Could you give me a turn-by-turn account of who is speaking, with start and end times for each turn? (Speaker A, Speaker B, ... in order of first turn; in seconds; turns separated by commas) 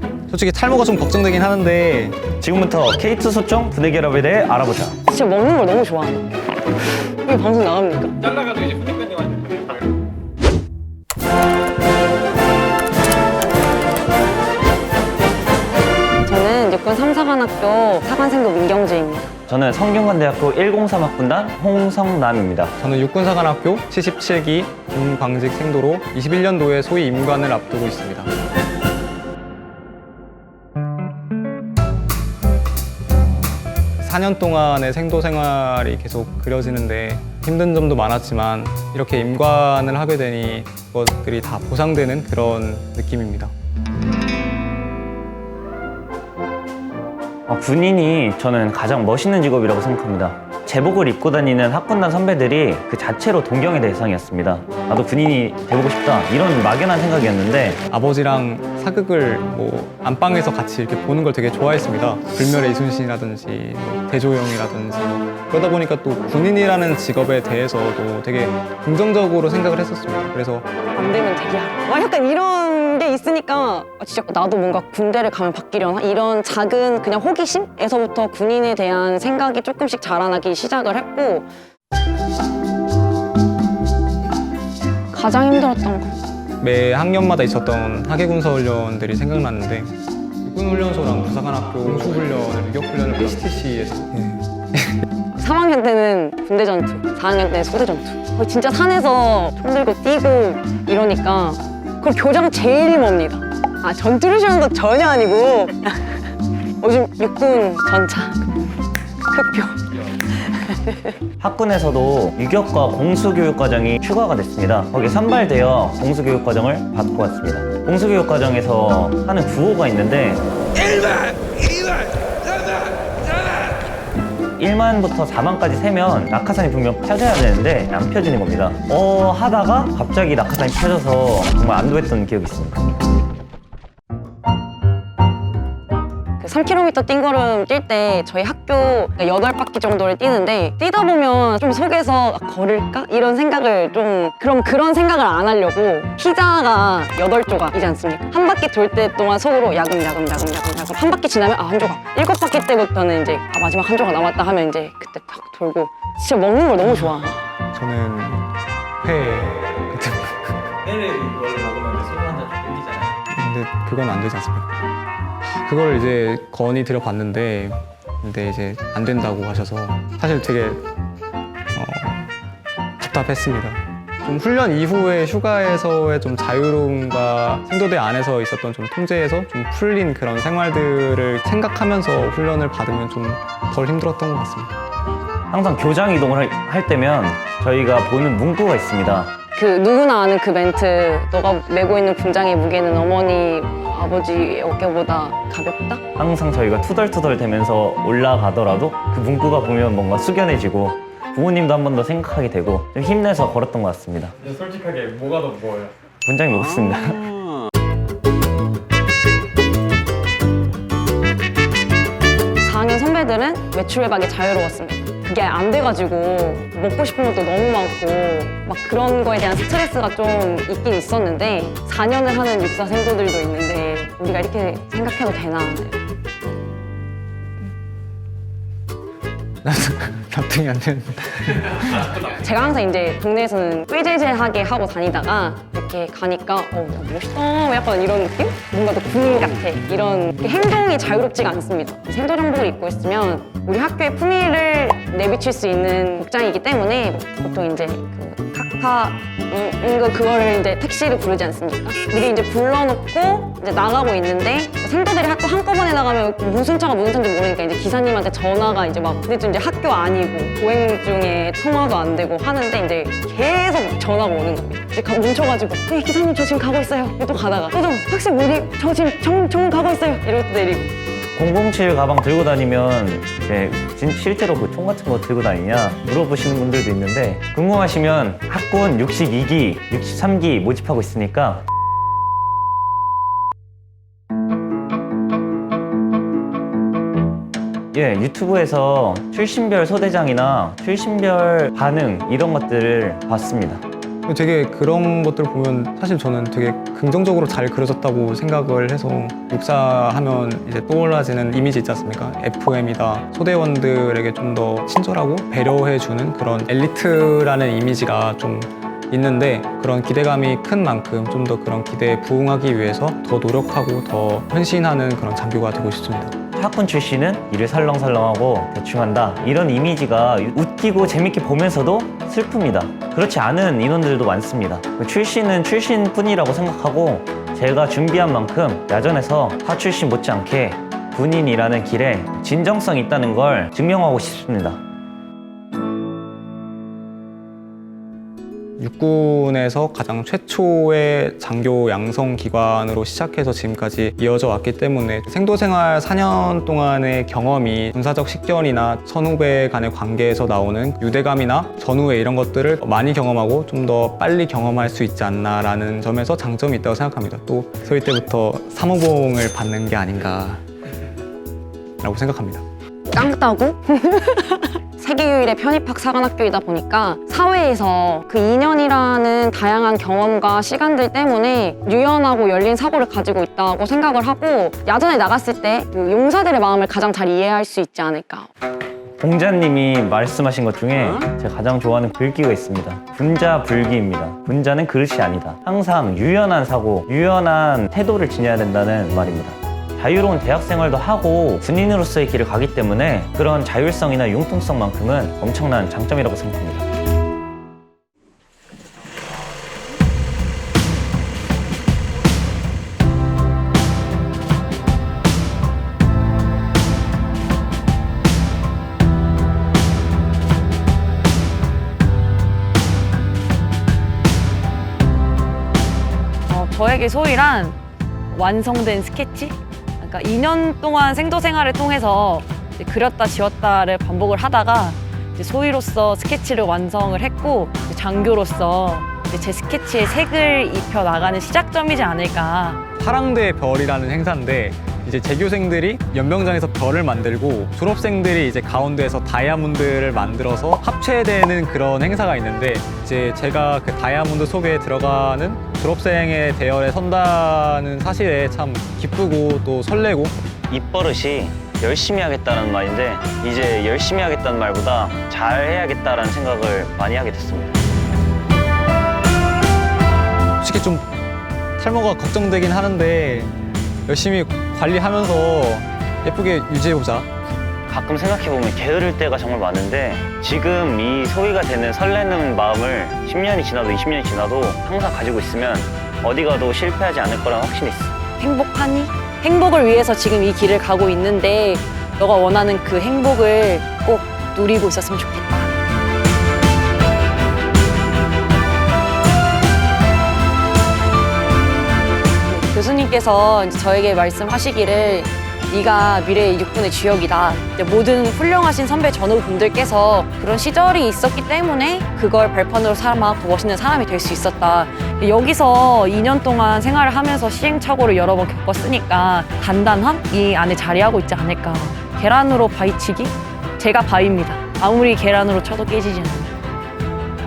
Speaker A: 0.3-2.2, Speaker B: 2.4-5.0, Speaker C: 5.1-6.3, Speaker C: 7.0-8.4, Speaker D: 8.6-9.6, Speaker E: 8.9-9.3, Speaker C: 16.2-19.3, Speaker B: 19.5-22.7, Speaker A: 22.8-28.3, Speaker A: 34.0-43.5, Speaker B: 47.5-57.8, Speaker A: 57.9-70.7, Speaker C: 70.9-81.5, Speaker C: 85.1-86.2, Speaker A: 86.6-95.0, Speaker C: 95.3-106.2, Speaker C: 106.8-108.5, Speaker C: 109.3-111.2, Speaker B: 111.4-121.3, Speaker B: 124.6-133.0, Speaker C: 136.4-157.4, Speaker A: 157.7-158.5, Speaker A: 159.0-160.9, Speaker E: 160.9-163.1, Speaker A: 163.3-164.7, Speaker A: 165.4-170.9, Speaker A: 171.8-172.3, Speaker A: 173.0-184.7, Speaker B: 185.5-189.3, Speaker C: 189.6-196.1, Speaker B: 196.2-204.4, Speaker E: 204.4-205.9, Speaker B: 206.3-207.4, Speaker C: 212.6-226.0, Speaker A: 229.6-232.2, Speaker C: 232.2-270.9, Speaker B: 271.4-281.6, Speaker B: 287.9-293.8, Speaker A: 294.3-316.4, Speaker B: 316.6-334.8, Speaker A: 338.8-360.6, Speaker A: 362.0-362.6, Speaker C: 363.1-378.5, Speaker B: 379.2-396.8, Speaker D: 416.5-417.8, Speaker D: 418.3-432.8, Speaker A: 433.0-450.4, Speaker B: 450.7-457.8, Speaker A: 460.6-461.1, Speaker A: 461.8-463.5, Speaker A: 464.1-467.3, Speaker B: 467.9-478.2, Speaker D: 478.4-485.7, Speaker D: 492.5-516.5